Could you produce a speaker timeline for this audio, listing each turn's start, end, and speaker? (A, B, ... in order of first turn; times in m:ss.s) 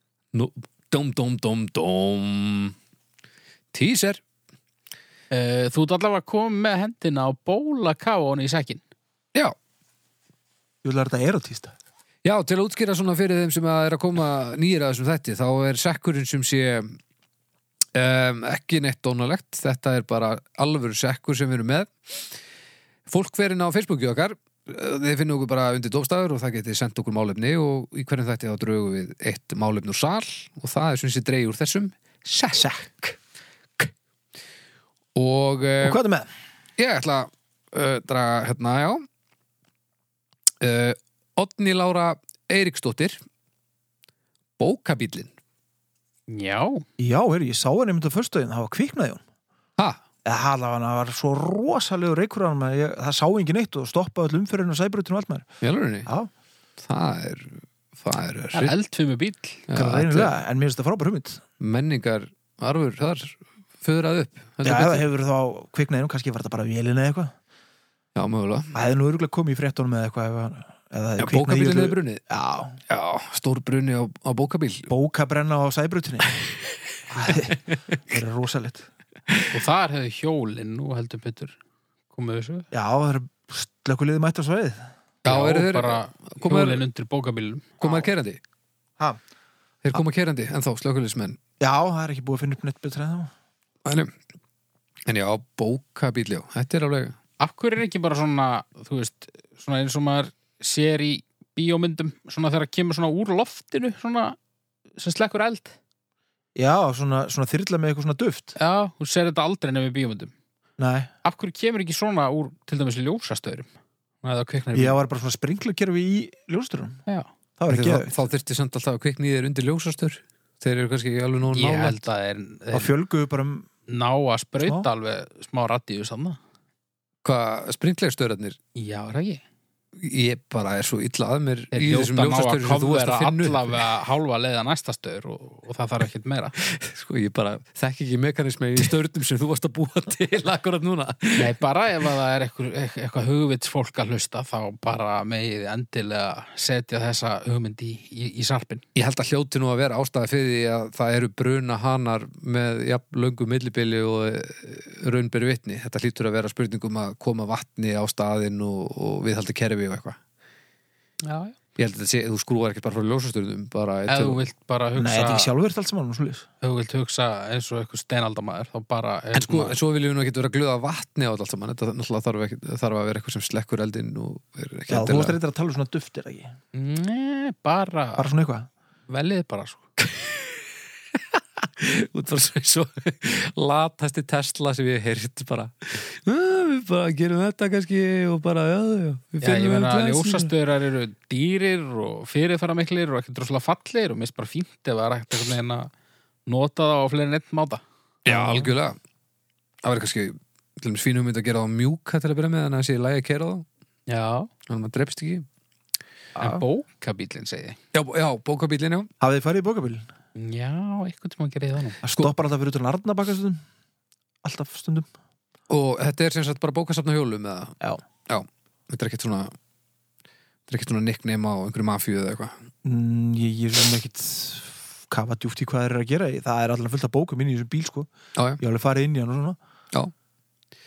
0:00.3-0:02.8 A
0:03.7-0:04.2 A
0:05.3-0:08.8 B
0:10.8-0:11.7 C
0:12.2-0:17.0 A
0:18.0-0:22.3 A
0:23.1-0:32.6 A
0:32.5-0:33.2 C
0:35.2-0:36.0 A
0:35.8-0:36.3 C
0:36.8-0:39.0 A
0:40.6-0:43.2 A
0:44.6-0:45.3 A
0:46.3-0:46.8 B
0:47.0-0:49.2 C
0:50.2-0:55.5 C
0:55.6-0:56.1 A
0:56.8-0:58.7 A
0:58.5-0:59.7 B
0:59.7-1:00.3 A
0:59.7-1:01.4 C
1:01.6-1:05.0 A
1:04.6-1:07.3 C
1:08.2-1:08.7 A
1:08.7-1:12.8 C
1:11.2-1:12.2 A
1:12.9-1:14.9 A
1:14.9-1:16.4 C
1:17.1-1:18.9 C
1:17.2-1:17.5 A
1:19.5-1:21.6 B
1:22.1-1:22.7 B
1:22.7-1:24.9 C
1:25.2-1:26.8 A
1:25.3-1:28.0 B
1:27.8-1:28.4 A
1:29.8-1:31.4 A
1:31.6-1:33.3 C
1:33.8-1:34.1 A
1:35.1-1:37.2 A
1:37.4-1:44.4 B
1:45.0-1:45.8 B
1:46.6-1:48.5 C
1:48.6-1:50.3 B
1:50.8-1:51.1 C
1:51.2-1:53.7 B
1:54.2-1:55.0 B
1:54.7-1:57.0 C
1:57.6-1:58.2 C
1:57.7-2:02.0 A
2:01.5-2:02.9 B
2:02.7-2:03.7 C
2:03.9-2:06.4 B
2:07.2-2:08.6 A
2:08.8-2:09.4 B
2:10.0-2:13.8 A
2:11.7-2:16.6 B
2:16.6-2:21.6 A
2:21.4-2:28.8 B
2:29.0-2:40.2 A
2:41.2-2:41.6 B
2:41.8-2:44.4 A
2:44.1-2:45.5 B
2:45.0-2:46.5 C
2:46.6-2:49.8 B
2:49.3-2:55.4 A
2:54.9-2:56.6 C
2:56.7-2:58.3 B
2:58.2-2:58.7 C
2:59.1-2:59.8 B
3:00.0-3:10.5 A
3:09.4-3:15.9 B
3:16.5-3:18.7 B
3:18.2-3:19.0 A
3:19.8-3:23.7 A
3:24.1-3:24.5 B
3:24.7-3:25.5 A
3:26.4-3:26.6 C
3:26.4-3:27.8 B
3:27.9-3:29.1 A
3:29.2-3:30.1 C
3:30.4-3:32.0 B
3:32.0-3:33.6 C
3:34.4-3:35.1 C
3:35.7-3:37.8 A
3:38.3-3:39.5 A
3:40.7-3:42.6 A
3:42.8-3:49.6 C
3:48.4-3:48.6 A